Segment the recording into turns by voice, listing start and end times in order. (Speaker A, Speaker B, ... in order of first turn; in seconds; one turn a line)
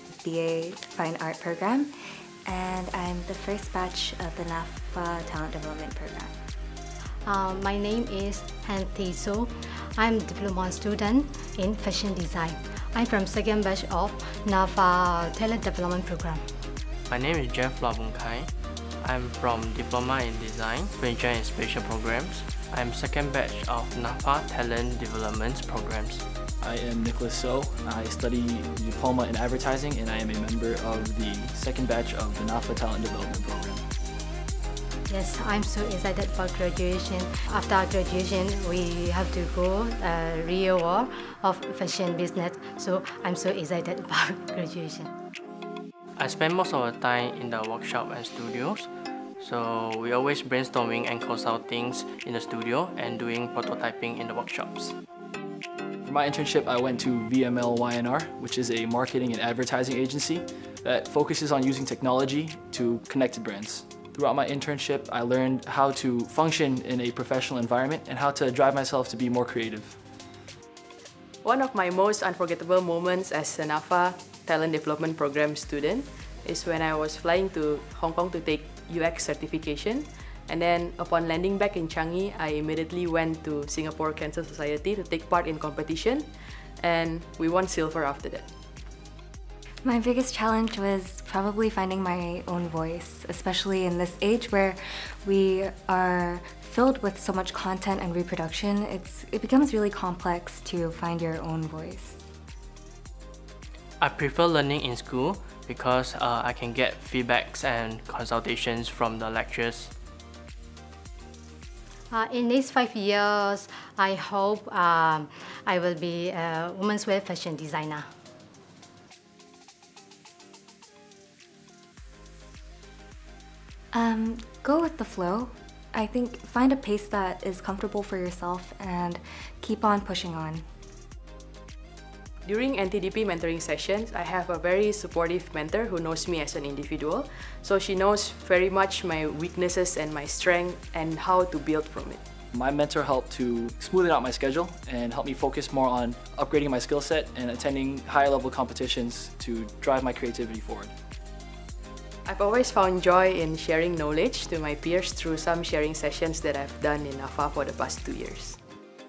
Speaker A: 0.2-1.9
Speaker A: 2.5-6.4
Speaker B: 7.2-16.4
Speaker C: 17.1-18.5
Speaker C: 19.0-26.2
Speaker D: 26.6-33.8
Speaker B: 35.1-45.1
Speaker C: 46.2-48.9
Speaker C: 49.4-54.9
Speaker D: 56.0-70.0
Speaker E: 71.4-86.3
Speaker E: 86.8-88.5
Speaker A: 89.8-102.2
Speaker C: 104.0-109.9
Speaker B: 112.1-118.1
Speaker A: 123.9-130.6
Speaker E: 132.4-142.2
Speaker D: 142.5-150.9
Speaker E: 152.2-158.6